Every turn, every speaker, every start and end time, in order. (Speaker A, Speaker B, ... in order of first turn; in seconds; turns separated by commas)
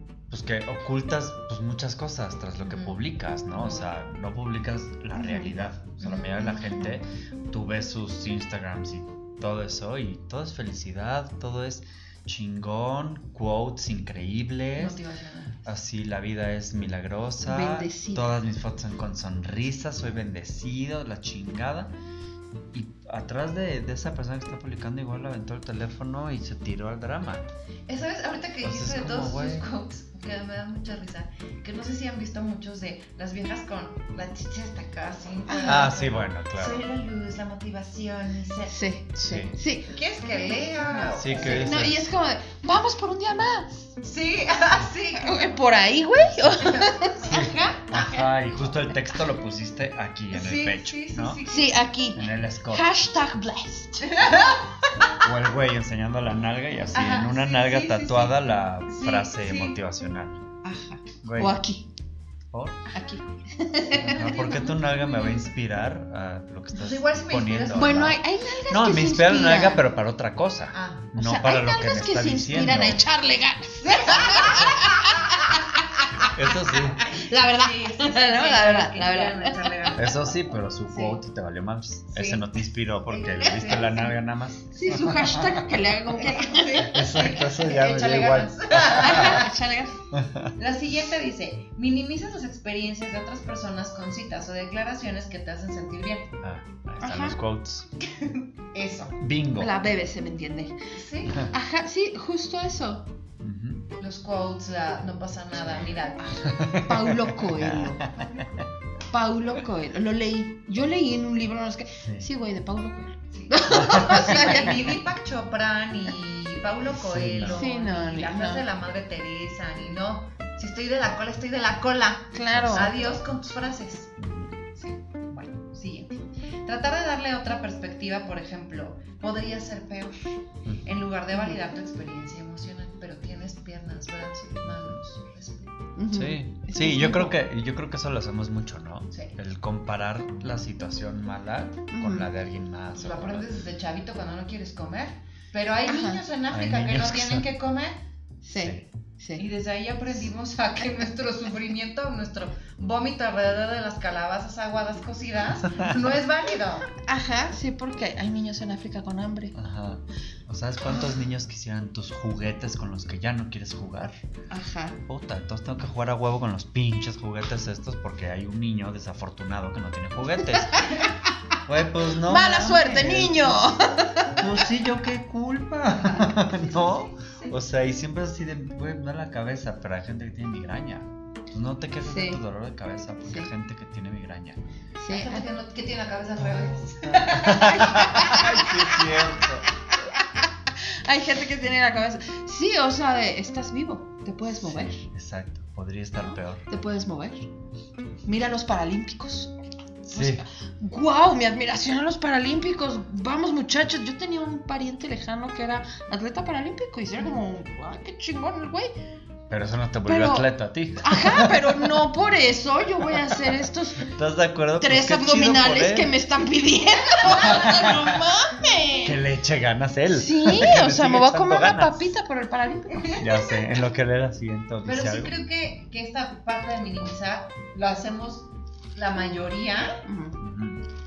Speaker A: 0.3-15.0, Speaker B: 2.6-3.0, Speaker B: 3.5-3.9, Speaker C: 5.2-5.5, Speaker B: 6.0-6.8, Speaker B: 14.8-15.7, Speaker A: 15.7-21.9, Speaker C: 17.4-18.3, Speaker A: 22.7-27.4, Speaker B: 27.9-38.8, Speaker A: 28.6-29.7, Speaker C: 35.5-35.9, Speaker A: 35.6-36.8, Speaker C: 38.7-43.9, Speaker A: 39.2-39.6, Speaker B: 39.9-41.7, Speaker A: 41.1-42.1, Speaker B: 44.0-45.5, Speaker C: 45.1-48.3, Speaker B: 46.6-47.2, Speaker A: 47.2-51.4, Speaker B: 50.3-51.9, Speaker C: 51.5-54.2, Speaker A: 52.1-52.9, Speaker B: 54.0-55.2, Speaker A: 55.2-60.4, Speaker B: 56.9-59.8, Speaker C: 60.6-61.9, Speaker A: 61.2-61.6, Speaker A: 62.5-62.8, Speaker C: 62.9-64.4, Speaker A: 63.9-73.0, Speaker B: 64.0-65.4, Speaker B: 66.7-68.2, Speaker C: 67.8-69.8, Speaker B: 70.7-71.1, Speaker C: 71.2-76.3, Speaker B: 73.8-75.5, Speaker A: 74.4-74.7, Speaker A: 76.3-77.0, Speaker C: 77.0-80.0, Speaker B: 77.0-80.2, Speaker A: 80.0-85.7, Speaker B: 82.1-82.4, Speaker B: 83.1-84.1, Speaker C: 84.7-87.1, Speaker B: 86.1-89.5, Speaker A: 86.8-89.4, Speaker C: 88.8-90.0, Speaker A: 90.1-90.5, Speaker B: 90.5-96.3, Speaker A: 96.4-97.9, Speaker C: 97.0-97.4, Speaker B: 98.0-99.2, Speaker A: 99.2-99.7, Speaker C: 99.6-100.8, Speaker B: 100.9-101.5, Speaker C: 101.5-103.1, Speaker A: 103.4-103.8, Speaker B: 104.0-106.5, Speaker A: 105.5-108.6, Speaker C: 106.2-108.1, Speaker C: 109.1-114.9, Speaker A: 112.0-112.3, Speaker B: 113.3-124.1, Speaker A: 113.7-114.5, Speaker A: 116.9-117.7, Speaker C: 117.4-118.6, Speaker C: 122.3-122.9, Speaker A: 122.5-123.3, Speaker A: 124.2-124.5, Speaker B: 124.8-130.3, Speaker A: 130.6-130.9, Speaker B: 130.8-135.8, Speaker C: 131.3-131.6, Speaker C: 135.9-137.4, Speaker A: 136.1-143.5, Speaker C: 141.9-142.3, Speaker B: 142.9-148.0, Speaker C: 145.8-146.2, Speaker A: 146.5-147.5, Speaker C: 148.4-149.4, Speaker A: 148.5-148.8, Speaker B: 149.4-156.9, Speaker C: 156.9-159.5, Speaker A: 159.5-164.2, Speaker C: 164.5-165.0, Speaker A: 165.1-170.9, Speaker C: 170.8-171.3, Speaker A: 171.6-184.6, Speaker C: 172.2-174.4, Speaker B: 176.0-177.6, Speaker C: 182.0-182.4, Speaker C: 185.0-185.5, Speaker B: 185.1-188.3, Speaker A: 186.4-189.7, Speaker C: 187.4-189.3, Speaker C: 190.1-195.1, Speaker A: 194.6-196.6, Speaker C: 196.2-197.5, Speaker C: 198.2-199.5, Speaker A: 200.0-200.4, Speaker C: 200.1-208.9, Speaker A: 209.5-212.0, Speaker C: 210.0-214.1, Speaker A: 214.1-216.1, Speaker C: 214.8-219.2, Speaker A: 217.4-218.2, Speaker A: 219.0-222.1, Speaker C: 220.1-223.2, Speaker B: 223.0-223.5, Speaker A: 223.2-225.3, Speaker B: 224.8-230.0, Speaker C: 230.0-230.4, Speaker A: 230.4-230.8